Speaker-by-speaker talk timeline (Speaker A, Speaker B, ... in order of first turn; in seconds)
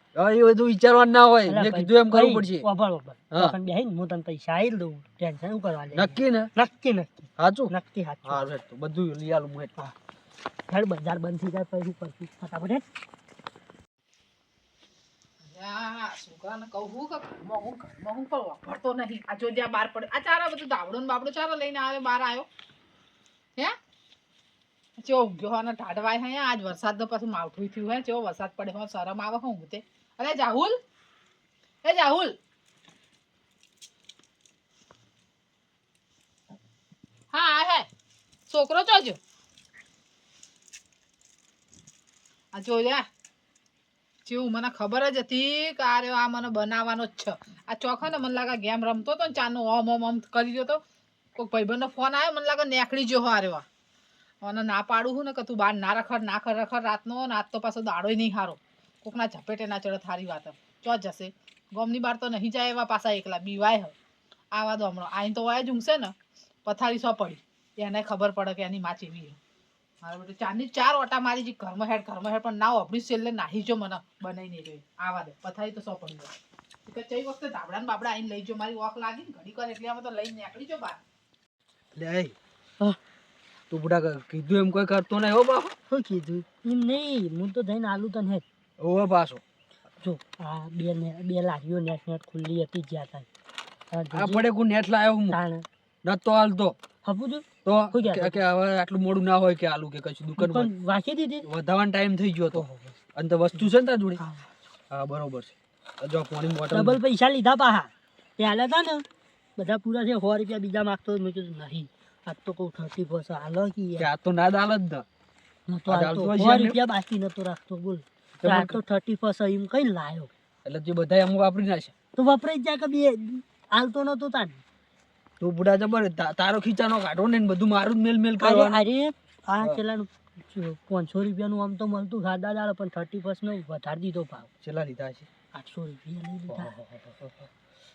Speaker A: 0.1-2.7, 5.9-6.5, 7.4-7.7, 8.2-9.7, 81.9-82.3, 83.7-85.7, 88.8-89.4, 94.1-95.4, 96.0-96.8, 97.6-100.7, 101.4-102.6, 103.1-104.2, 104.9-107.0, 114.0-115.0, 115.9-116.8, 118.4-118.8, 120.6-121.9, 125.4-128.8, 134.6-135.3, 136.5-137.5
Speaker B: 1.5-8.5, 10.7-12.8, 85.9-88.4, 90.0-93.3, 93.9-94.4, 95.3-95.7, 97.0-98.4, 100.4-101.5, 102.5-103.0, 104.2-104.4, 106.7-109.0, 109.6-114.1, 115.7-120.3, 122.2-124.6, 128.4-134.5, 135.5-136.7
Speaker C: 15.5-22.5, 25.0-30.8, 31.8-32.4, 37.3-37.9, 38.5-39.2, 42.5-43.0, 44.3-50.8, 51.4-53.6, 54.4-63.9, 64.5-66.1, 66.7-69.4, 70.0-76.3, 76.8-81.0